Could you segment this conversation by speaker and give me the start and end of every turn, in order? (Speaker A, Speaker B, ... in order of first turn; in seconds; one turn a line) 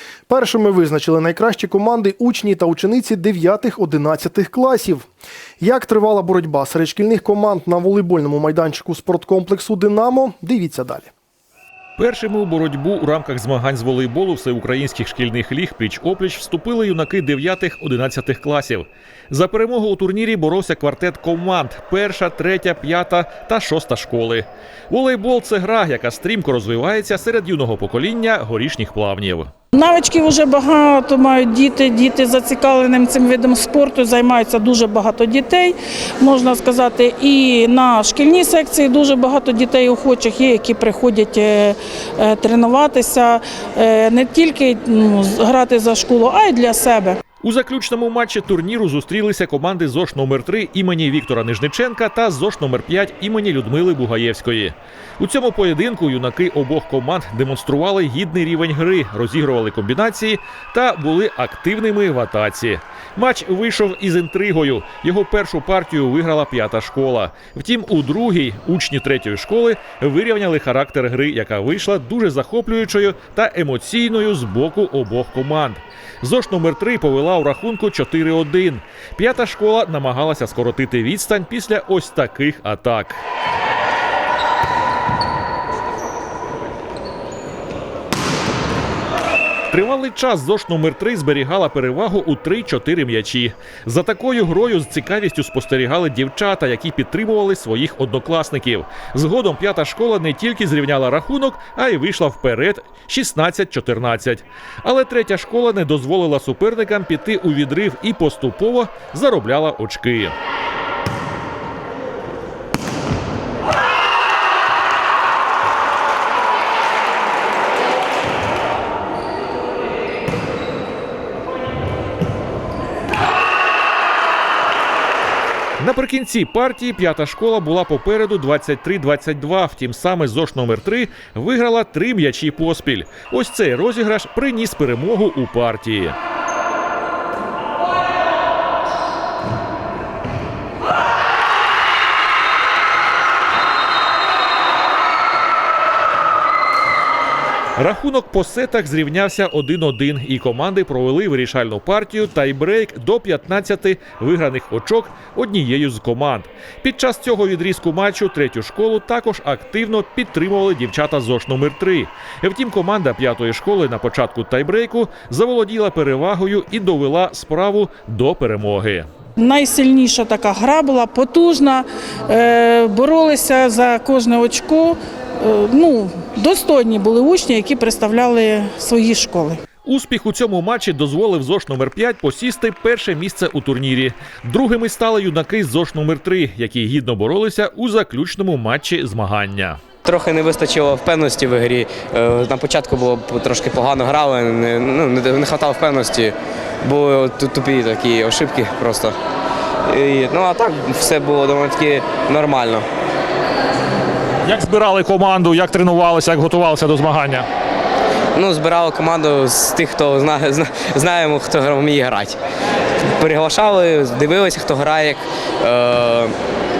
Speaker A: 0.3-5.1
Speaker A: 5.6-11.1
Speaker B: 12.0-29.5
Speaker C: 29.7-47.2
Speaker B: 47.4-83.2
Speaker B: 89.7-110.3
Speaker B: 125.8-136.2
Speaker B: 147.8-169.1
Speaker C: 169.4-179.6
Speaker B: 179.8-189.8
Speaker D: 190.0-199.2
Speaker D: 199.9-202.8
Speaker E: 204.5-207.5
Speaker D: 208.3-212.4
Speaker D: 213.2-216.3